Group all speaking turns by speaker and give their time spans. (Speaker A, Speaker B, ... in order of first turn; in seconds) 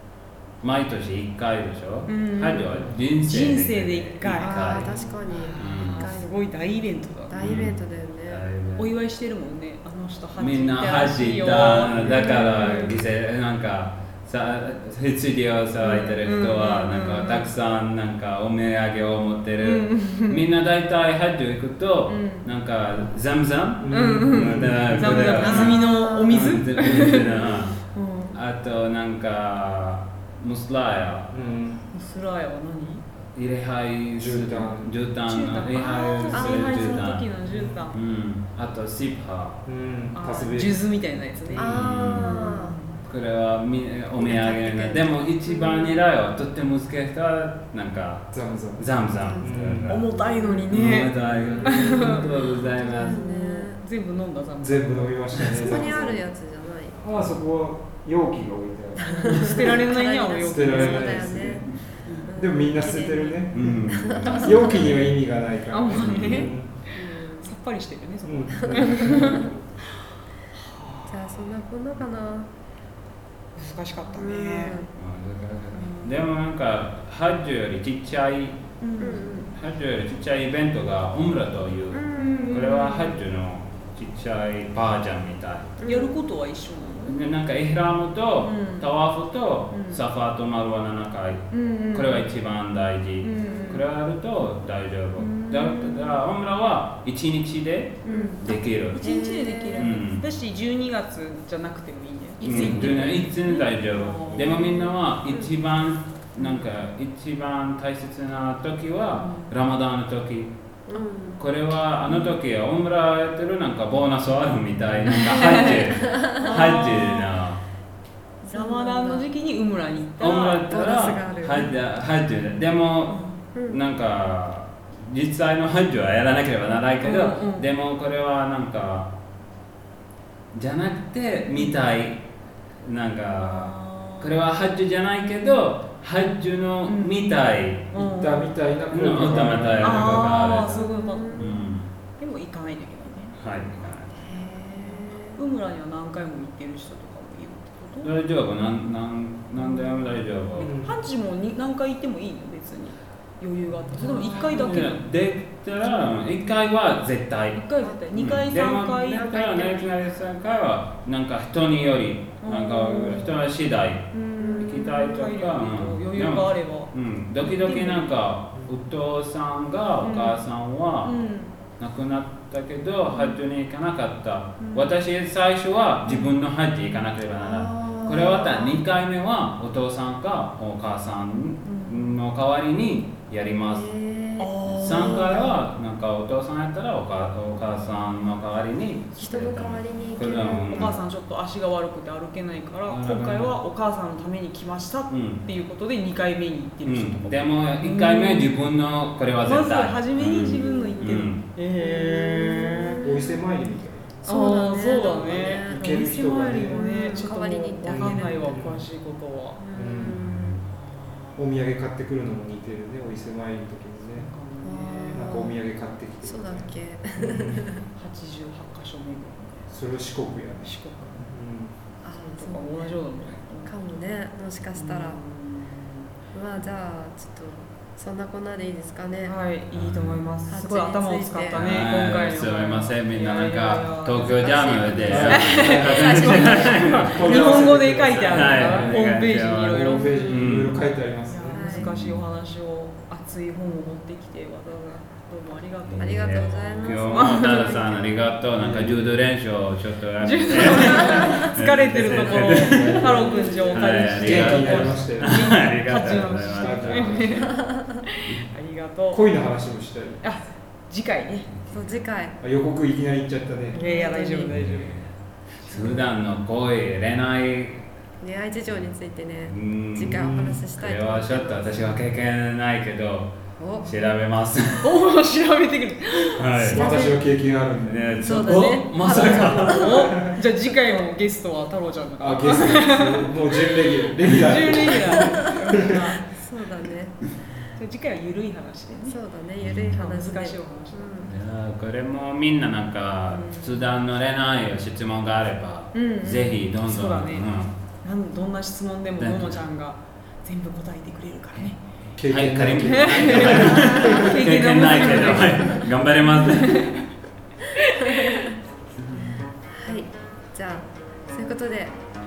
Speaker A: 0.6-5.0, 5.5-6.1, 7.4-8.9, 10.4-27.8, 28.3-31.3, 33.3-37.3, 37.9-39.6, 41.6-42.3, 43.0-50.1, 50.7-53.2, 63.5-65.2, 65.9-66.5, 74.9-78.6, 79.5-85.7, 87.0-99.0, 99.7-100.2, 102.4-110.6, 111.4-117.6, 120.2-129.1, 130.5-132.2, 132.8-137.9, 138.9-141.9, 143.4-144.1, 148.0-150.7, 154.1-157.6, 158.1-171.2, 171.8-183.9, 184.7-191.0, 192.9-193.6, 195.1-195.4, 196.8-201.4, 229.7-230.2, 231.5-240.8, 241.7-242.2, 245.8-253.1, 253.7-257.5, 264.5-265.1, 265.6-267.9, 268.7-275.0, 276.4-276.9, 277.9-279.9, 289.6-290.0, 291.2-297.8, 299.2-299.6, 302.2-307.0, 309.0-309.4
Speaker B: 2.0-4.6, 5.5-7.5, 8.8-13.0, 15.8-17.5, 19.6-20.4, 22.1-22.5, 23.9-28.4, 31.9-33.0, 35.2-37.9, 40.1-43.0, 49.9-51.1, 51.6-56.0, 59.1-61.5, 65.7-69.5, 70.5-71.5, 73.5-74.8, 75.7-76.3, 78.8-79.4, 82.2-83.2, 85.8-87.2, 88.4-88.9, 89.7-90.0, 91.5-92.3, 93.2-93.9, 95.2-96.2, 98.0-105.0, 106.4-106.6, 109.2-109.5, 112.0-112.3, 115.1-117.4, 118.4-120.6, 123.1-123.4, 127.0-127.7, 133.4-134.4, 136.8-138.5, 139.8-143.3, 144.8-148.1, 149.6-155.0, 157.5-160.0, 162.4-163.4, 164.1-168.1, 170.0-170.4, 171.0-171.5, 173.1-173.4, 174.6-174.9, 181.6-182.1, 184.4-185.3, 190.7-198.5, 199.4-203.0, 204.2-209.6, 210.7-211.4, 214.1-215.3, 217.9-219.8, 220.6-221.2, 222.2-223.8, 224.7-226.0, 229.2-240.5, 241.3-247.9, 250.2-257.7, 258.2-259.3, 260.2-261.5, 263.7-265.1, 265.6-266.1, 274.8-276.7, 279.5-286.2, 287.7-289.2, 289.8-291.3, 293.3-293.9, 295.9-297.5, 298.0-301.8, 302.9-307.0, 307.8-308.6
Speaker C: 4.4-6.3, 7.3-8.4, 25.1-27.1, 36.3-37.1, 41.5-42.8, 44.1-45.9, 49.1-49.5, 50.1-50.7, 51.9-53.8, 55.5-57.0, 59.0-64.9, 66.9-67.5, 68.5-69.5, 71.1-72.5, 74.1-74.9, 79.0-79.5, 81.9-82.6, 85.8-86.3, 98.0-99.9, 110.9-111.4, 115.5-116.8, 118.5-119.3, 120.7-121.7, 123.5-123.8, 140.6-141.6, 144.2-145.4, 154.0-154.8, 157.8-158.1, 164.4-164.8, 177.3-178.8, 183.7-185.6, 189.2-191.0, 200.6-201.2, 201.8-203.4, 204.2-206.0, 206.5-208.6, 209.6-210.7, 214.6-215.6, 216.2-217.8, 222.0-223.0, 223.6-225.2, 226.3-229.3, 230.5-231.7, 234.2-237.6, 239.9-240.3, 241.5-241.9, 246.0-248.4, 250.7-253.6, 257.4-258.0, 261.7-262.4, 263.8-264.6, 268.2-272.1, 273.6-273.9, 276.6-277.2, 278.2-280.2, 285.0-287.3, 289.1-291.3, 305.3-305.6, 308.1-308.5, 309.7-312.0
Speaker D: 4.8-5.4, 23.8-25.1, 31.3-31.8, 34.2-34.9, 37.4-37.8, 39.6-40.8, 48.3-49.9, 51.2-51.8, 54.6-56.2, 57.0-59.6, 60.5-66.8, 68.2-69.6, 138.0-140.4, 150.6-150.9, 203.0-204.1, 205.4-207.1, 207.8-208.8, 209.7-210.2, 211.3-214.3, 215.1-217.7, 219.7-221.7, 235.1-239.0, 239.7-241.7, 248.6-249.0, 252.6-255.5, 256.5-257.6, 259.1-260.2, 262.4-263.8, 270.0-270.6, 276.7-278.3, 279.0-280.3, 282.2-285.5, 302.1-304.3